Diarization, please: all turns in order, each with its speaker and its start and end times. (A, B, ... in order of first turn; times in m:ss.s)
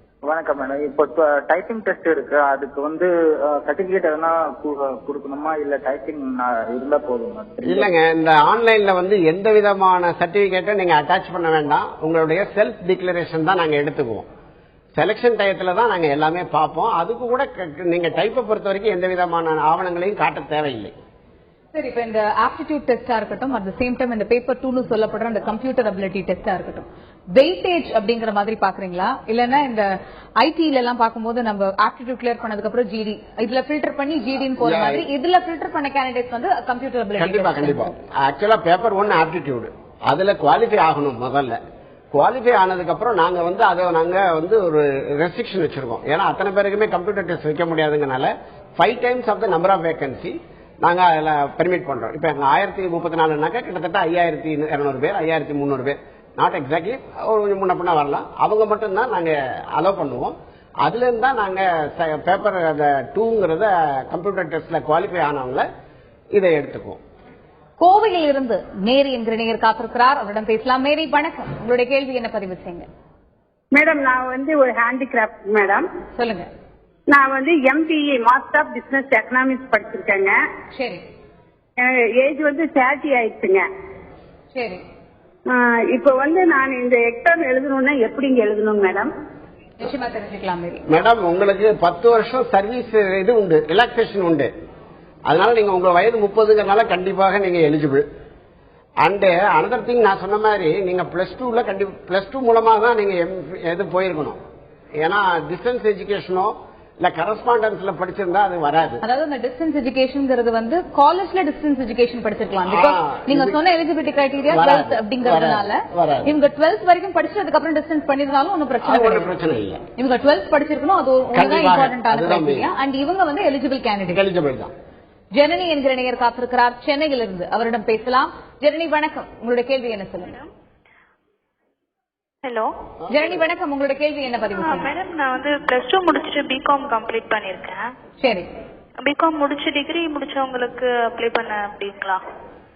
0:00.3-0:07.9 A
0:07.6-0:14.3 B
0:15.0-0:20.9 B
0:21.7-0:38.0 C
0:34.6-0:35.1 B
0:37.2-0:41.6 B
0:42.1-1:05.7 B
1:06.3-1:07.0 B
1:07.8-1:12.9 C
1:13.7-1:15.9 D
1:16.2-1:16.5 C
1:17.1-1:20.4 D
1:20.7-1:21.0 C
1:21.8-1:23.6 D
1:24.5-1:24.8 C
1:25.5-1:29.1 D
1:29.8-1:30.8 C
1:30.9-1:34.5 B
1:35.3-1:38.0 B
1:39.0-1:44.4 B
1:45.0-1:49.0 B
1:49.0-1:59.3 C
1:52.6-1:53.6 B
1:54.5-1:56.3 B
1:58.8-1:59.8 B
2:00.0-2:04.2 C
2:01.3-2:02.7 B
2:04.1-2:04.7 B
2:05.4-2:10.4 C
2:12.4-2:12.7 E
2:13.1-2:13.4 B
2:13.1-2:14.9 C
2:14.6-2:17.9 E
2:18.2-2:18.5 C
2:19.0-2:22.2 E